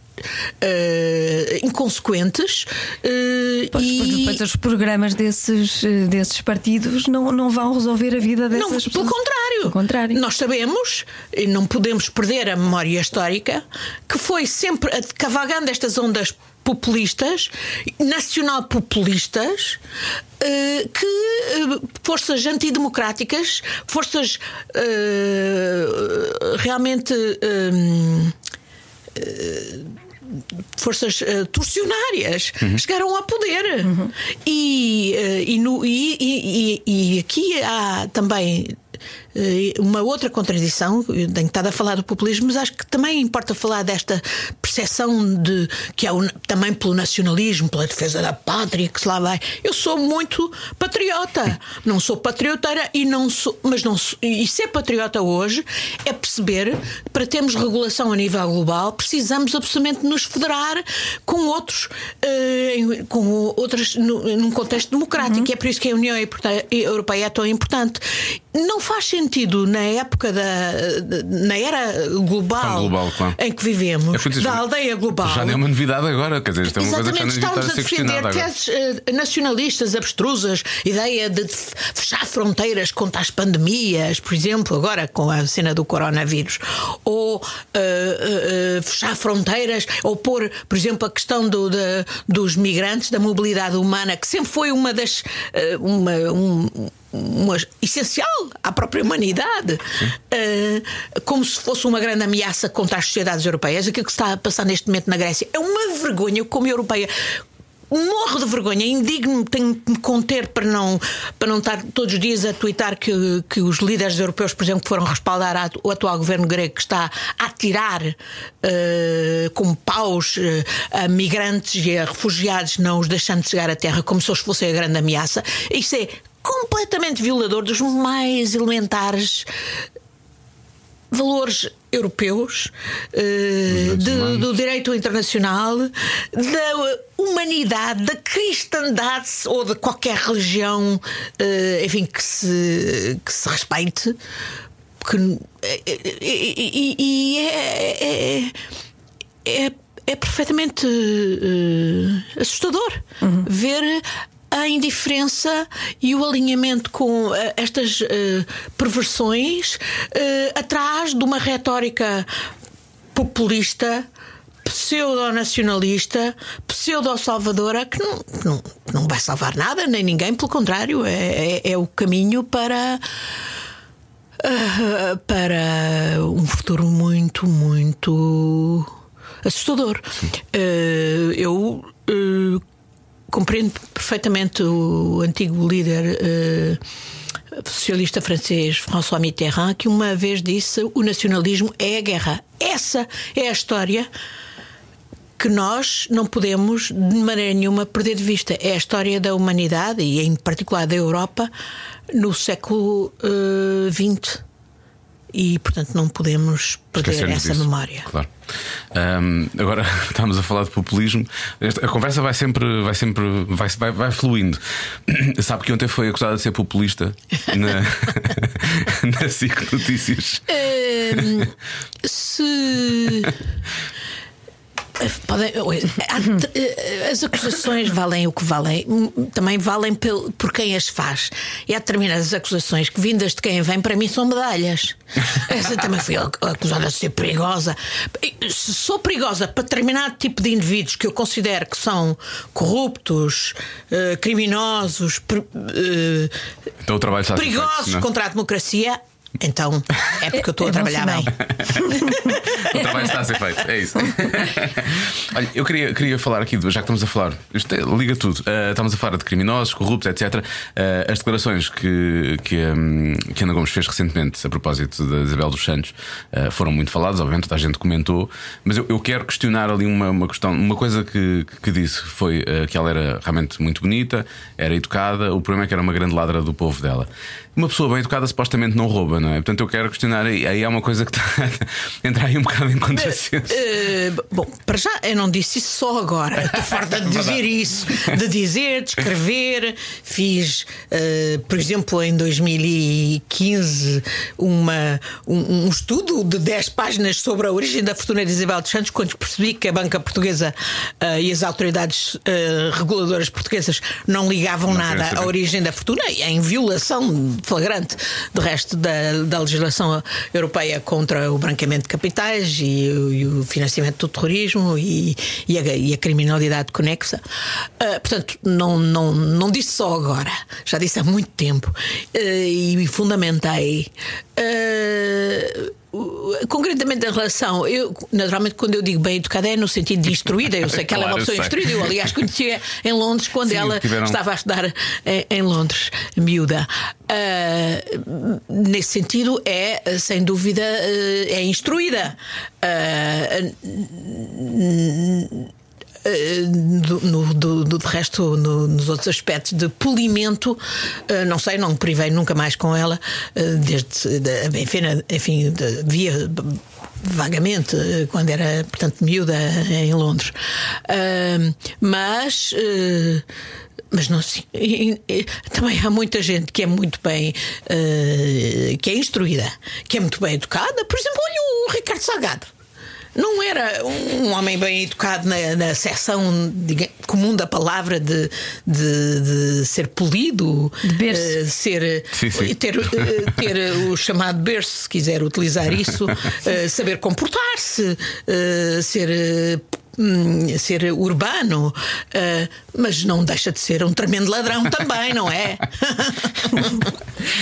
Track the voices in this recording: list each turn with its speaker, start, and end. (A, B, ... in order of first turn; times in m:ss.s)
0:00.6-0:04.4 A
0:03.7-0:09.1 B
0:08.5-0:19.8 A
0:09.7-0:10.2 B
0:20.4-0:28.4 A
0:29.1-0:29.9 A
0:30.8-0:38.8 A
0:39.3-1:15.6 A
1:12.6-1:13.4 C
1:14.1-1:14.6 C
1:15.2-1:18.5 C
1:16.6-1:47.4 A
1:47.9-2:09.5 A
2:11.1-2:24.2 A
2:13.7-2:14.5 C
2:25.0-2:28.6 A
2:29.4-2:42.3 A
2:43.1-2:44.1 A
2:44.6-2:53.0 A
2:54.4-2:58.9 A
2:59.4-3:02.6 A
3:03.3-3:06.8 A
3:07.5-3:14.1 A
3:15.4-3:21.5 A
3:22.1-3:24.4 A
3:25.3-3:28.1 A
3:27.0-3:28.3 C
3:28.9-3:40.6 C
3:40.5-3:41.5 A
3:41.1-3:41.4 C
3:42.0-3:43.4 A
3:45.0-4:06.3 A
4:06.8-4:08.1 C
4:07.3-4:11.3 A
4:10.3-4:12.3 B
4:11.5-4:43.6 C
4:43.0-5:17.2 A
5:04.7-5:05.3 C
5:17.8-5:45.5 A
5:30.9-5:31.9 C
5:33.5-5:34.2 C
5:46.0-6:00.3 A
6:00.9-6:03.2 A
6:03.9-6:12.5 A
6:13.2-6:36.9 A
6:20.8-6:21.4 B
6:22.2-6:23.1 C